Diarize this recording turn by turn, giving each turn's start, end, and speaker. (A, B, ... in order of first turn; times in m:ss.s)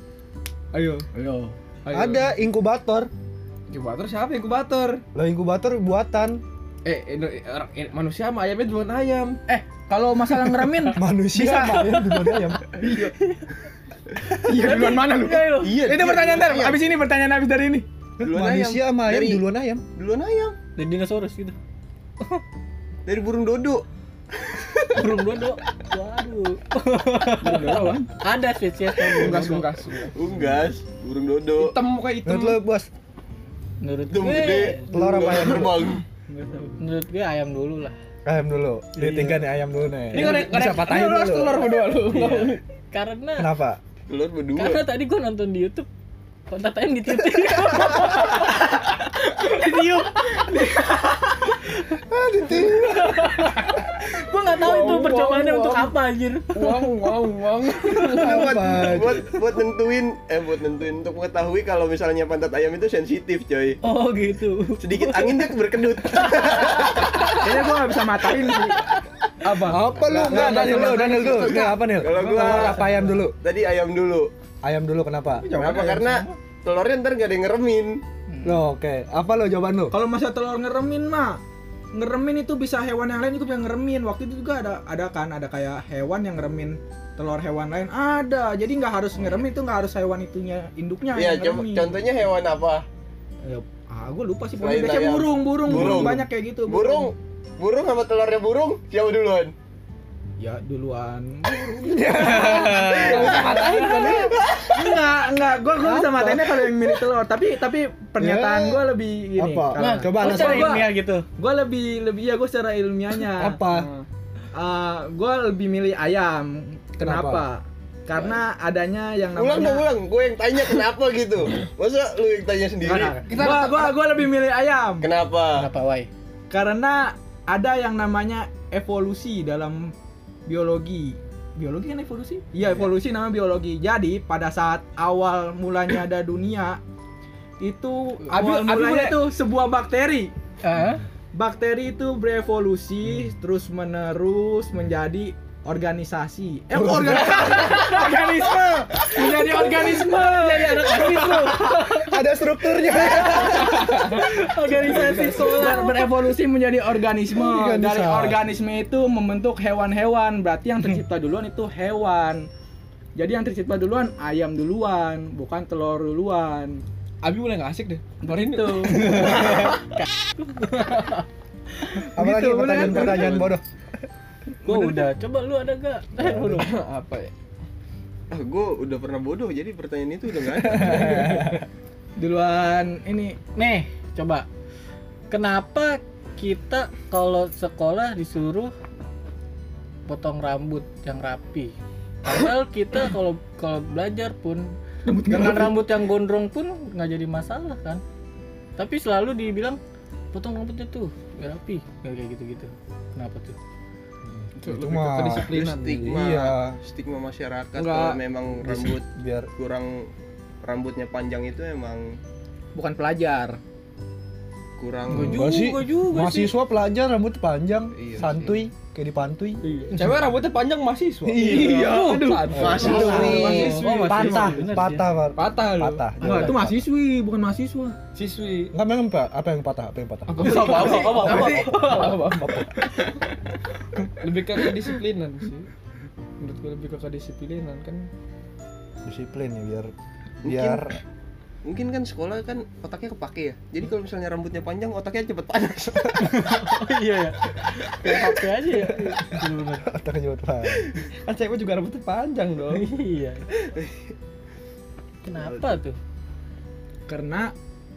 0:00.7-0:01.5 A
0:00.8-0:01.1 B
0:01.8-0:02.3 B
0:01.9-0:03.1 C
0:03.7-0:05.0 B
0:05.1-0:06.4 C
0:06.8-0:09.4 B
0:09.5-0:13.1 A
0:11.0-0:12.6 C
0:14.3-0:17.9 A
0:14.6-0:15.6 D
0:15.6-0:16.8 E
0:18.2-0:19.8 C
0:18.2-0:20.6 E
0:20.8-0:21.6 D
0:23.1-0:23.8 E
0:24.6-0:29.7 D
0:27.4-0:28.1 A
0:27.5-0:28.0 B
0:29.0-0:30.6 B
0:30.2-0:31.8 E
0:31.6-0:32.6 B
0:32.2-0:32.9 C
0:33.8-0:34.9 D
0:34.1-0:36.0 E
0:34.9-0:35.9 C
0:36.3-0:36.8 A
0:36.8-0:38.0 D
0:38.2-0:41.6 C
0:39.0-0:39.4 D
0:40.1-0:42.6 B
0:40.2-0:40.5 D
0:42.1-0:43.5 D
0:43.4-0:43.8 C
0:44.1-0:44.9 E
0:44.6-0:45.9 D
0:46.5-0:51.8 D
0:52.1-0:53.2 C
0:52.4-0:56.9 D
0:54.6-0:55.9 B
0:56.5-0:58.7 B
0:58.2-0:59.2 C
0:58.3-1:03.8 E
1:03.8-1:05.5 D
1:04.8-1:07.3 E
1:06.4-1:07.4 D
1:07.3-1:08.8 A
1:09.4-1:13.3 A
1:09.6-1:13.4 C
1:10.2-1:12.7 E
1:13.4-1:14.3 E
1:14.6-1:15.5 C
1:15.4-1:16.4 A
1:15.6-1:18.0 E
1:18.3-1:18.6 A
1:18.4-1:20.0 C
1:19.9-1:21.4 A
1:21.9-1:32.1 A
1:31.2-1:32.9 E
1:33.4-1:37.1 A
1:34.6-1:39.5 E
1:35.6-1:36.3 C
1:40.4-1:44.2 A
1:41.8-1:44.3 C
1:42.2-1:44.4 B
1:42.4-1:44.3 D
1:44.7-1:53.6 A
1:45.8-1:46.8 C
1:48.2-1:50.8 C
1:49.8-1:51.3 D
1:53.3-1:53.9 C
1:53.7-1:54.1 B
1:54.5-1:59.9 A
1:57.0-1:57.5 C
1:59.4-2:03.2 E
2:02.8-2:05.1 A
2:03.2-2:04.0 B
2:05.0-2:05.7 E
2:05.6-2:06.1 D
2:06.5-2:09.9 A
2:10.5-2:16.8 A
2:17.6-2:20.3 A
2:18.2-2:19.2 B
2:20.6-2:21.0 D
2:21.3-2:31.9 A
2:26.7-2:27.5 C
2:27.6-2:27.9 D
2:29.0-2:32.2 D
2:31.7-2:33.9 C
2:32.8-2:36.1 D
2:33.6-2:42.5 A
2:34.8-2:35.3 B
2:37.4-2:38.4 C
2:43.2-2:46.8 A
2:47.2-2:49.7 B
2:48.2-2:49.6 A
2:49.0-2:51.3 D
2:51.9-2:53.4 A
2:52.2-2:53.6 C
2:53.1-2:53.5 E
2:54.6-2:56.7 D
2:56.2-2:56.7 C
2:56.6-2:57.3 B
2:58.3-3:01.0 E
3:00.6-3:01.6 C
3:00.8-3:01.5 B
3:01.0-3:01.4 A
3:02.2-3:03.4 A
3:03.6-3:04.5 D
3:05.3-3:08.7 D
3:10.1-3:14.7 D
3:15.0-3:15.8 A
3:15.3-3:18.0 D
3:18.8-3:19.8 D
3:20.3-3:23.6 D
3:24.6-3:26.1 B
3:24.6-3:26.8 C
3:25.4-3:29.0 E
3:27.8-3:28.8 B
3:28.7-3:29.5 C
3:29.6-3:30.1 E
3:30.6-3:32.2 E
3:32.8-3:33.6 A
3:34.8-3:35.3 E
3:35.1-3:36.6 D
3:35.1-3:39.6 C
3:38.0-3:38.6 E
3:39.6-3:44.7 B
3:41.2-3:41.8 C
3:41.3-3:45.1 D
3:41.4-3:43.4 A
3:42.5-3:46.8 C
3:42.6-3:43.7 E
3:44.1-3:44.5 A
3:45.4-3:46.1 B
3:46.2-3:46.6 D
3:46.2-3:48.0 A
3:48.1-3:48.7 B
3:48.7-3:52.7 C
3:50.3-3:52.6 B
3:50.4-3:52.1 D
3:50.5-3:51.9 A
3:54.2-3:55.7 B
3:56.4-3:58.1 B
3:59.0-3:59.9 C
4:00.4-4:00.8 E
4:00.4-4:01.0 C
4:01.7-4:06.4 E
4:06.2-4:09.8 D
4:09.8-4:10.9 C
4:10.8-4:12.9 B
4:12.7-4:13.5 D
4:15.2-4:16.0 D
4:15.4-4:15.8 E
4:17.1-4:17.5 A